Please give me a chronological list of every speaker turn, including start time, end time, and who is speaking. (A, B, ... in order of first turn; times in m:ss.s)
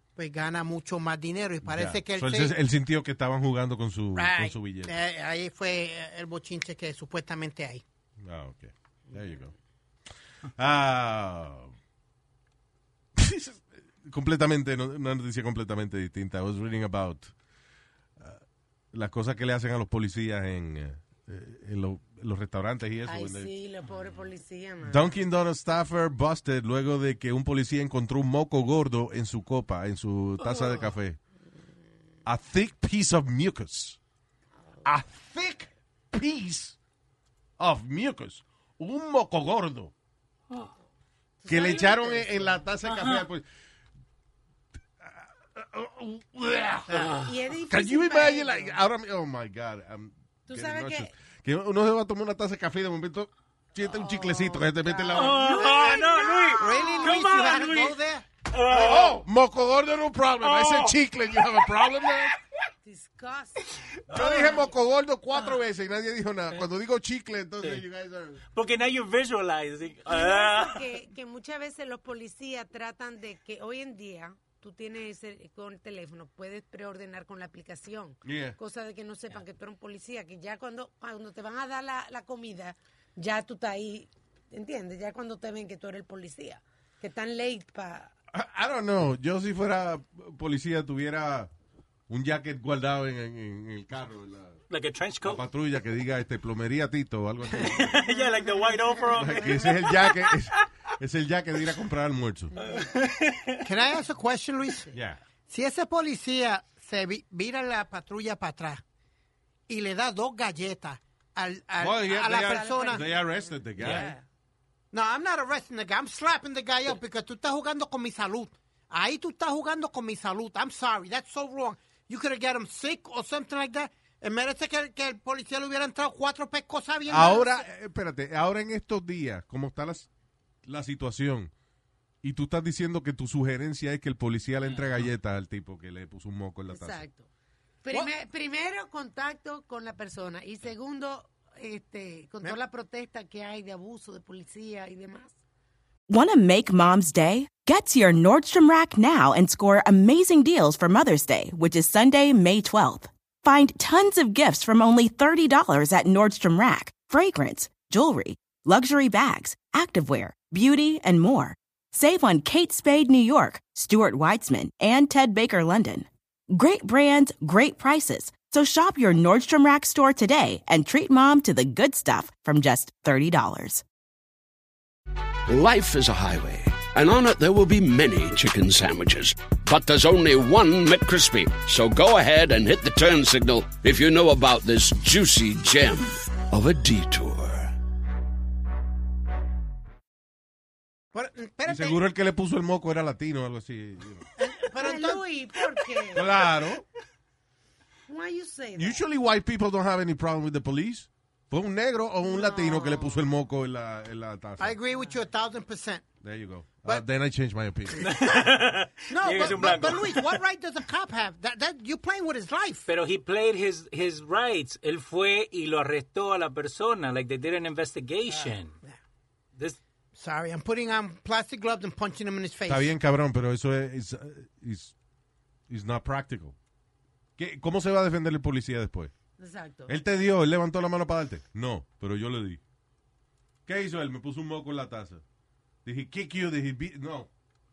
0:00.2-0:02.5 A
0:01.6-0:05.0 B
0:04.1-0:07.8 A
0:08.2-0:09.5 B
0:10.5-0:11.7 B
0:13.1-0:17.3 B
0:18.9-0:23.5 B
0:23.0-0:25.1 C
0:24.8-0:31.2 B
0:32.2-0:34.0 B
0:34.8-0:36.8 B
0:37.6-0:39.9 B
0:41.4-0:42.6 C
0:41.5-0:43.4 B
0:42.8-0:43.2 D
0:45.0-0:47.2 B
0:46.9-0:47.4 D
0:47.2-0:48.8 C
0:47.7-0:55.7 B
0:50.5-0:51.1 C
0:53.8-0:57.2 C
0:55.1-0:58.0 D
0:55.3-0:58.2 A
0:58.5-0:59.2 D
0:58.7-1:02.3 B
1:00.4-1:02.3 D
1:02.8-1:04.7 C
1:04.1-1:08.4 B
1:04.1-1:04.6 D
1:08.5-1:10.9 D
1:10.1-1:28.1 C
1:18.2-1:18.6 B
1:28.3-1:31.5 B
1:32.1-1:34.6 B
1:34.7-1:35.4 D
1:35.2-1:38.1 B
1:37.6-1:40.4 D
1:39.1-1:42.5 B
1:42.6-1:43.7 D
1:43.6-1:44.9 A
1:44.9-1:45.2 B
1:45.5-1:48.8 A
1:49.7-1:53.0 A
1:51.8-1:54.1 B
1:52.2-1:54.2 C
1:54.9-2:07.6 A
2:07.1-2:10.1 B
2:10.6-2:11.5 B
2:12.2-2:17.0 B
2:14.6-2:15.1 D
2:16.7-2:17.3 C
2:17.8-2:25.4 C
2:26.1-2:53.8 E
2:55.5-3:07.7 F
3:11.1-3:12.0 A
3:11.6-3:14.3 B
3:14.4-3:15.2 A
3:14.8-3:16.4 C
3:16.1-3:16.8 B
3:18.1-3:19.0 C
3:18.7-3:24.8 B
3:22.3-3:23.2 C
3:24.6-3:26.1 A
3:24.9-3:25.2 C
3:26.2-3:28.1 B
3:28.0-3:30.4 D
3:29.1-3:32.8 A
3:32.8-3:38.8 D
3:40.2-3:42.9 A
3:42.7-3:44.9 B
3:45.7-3:46.5 B
3:47.4-3:49.1 B
3:49.4-3:50.0 C
3:49.9-3:52.6 B
3:53.6-3:55.2 B
3:55.8-3:57.3 B